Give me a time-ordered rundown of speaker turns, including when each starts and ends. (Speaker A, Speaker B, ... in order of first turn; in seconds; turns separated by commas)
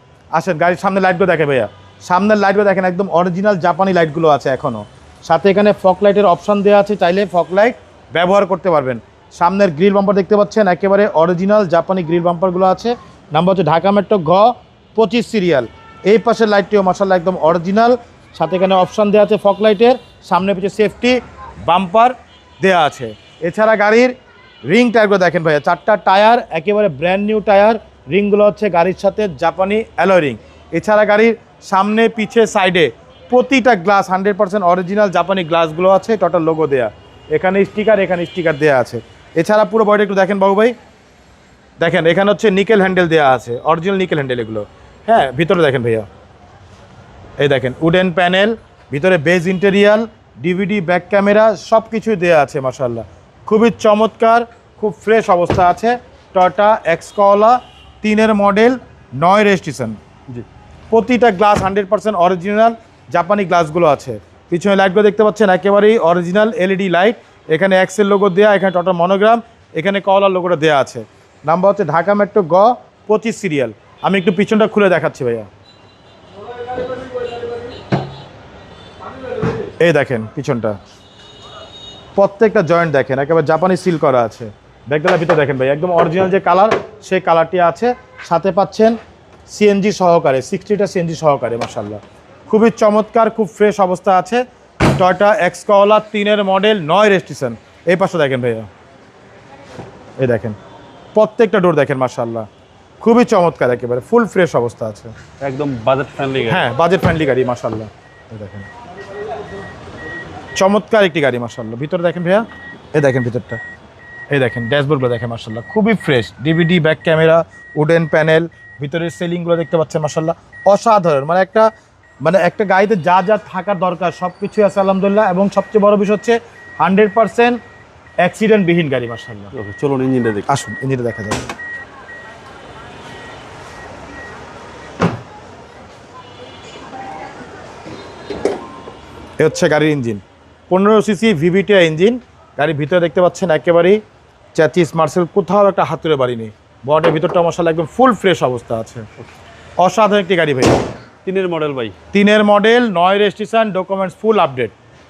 Speaker A: 0.3-24.1, Speaker A: 24.7-40.7, Speaker A: 41.8-46.1, Speaker A: 47.4-60.0, Speaker A: 60.9-75.5, Speaker A: 79.8-80.8, Speaker A: 82.2-94.4, Speaker A: 95.0-98.7, Speaker A: 100.2-100.6, Speaker A: 101.2-102.5, Speaker A: 103.0-105.1, Speaker B: 105.4-106.7, Speaker A: 106.5-108.7, Speaker A: 110.6-113.6, Speaker A: 114.3-121.7, Speaker A: 122.2-127.6, Speaker A: 128.2-129.5, Speaker B: 129.5-130.5, Speaker A: 130.5-131.4, Speaker A: 139.4-144.0, Speaker A: 144.6-149.1, Speaker A: 149.8-150.8, Speaker B: 151.2-151.9, Speaker A: 152.1-154.8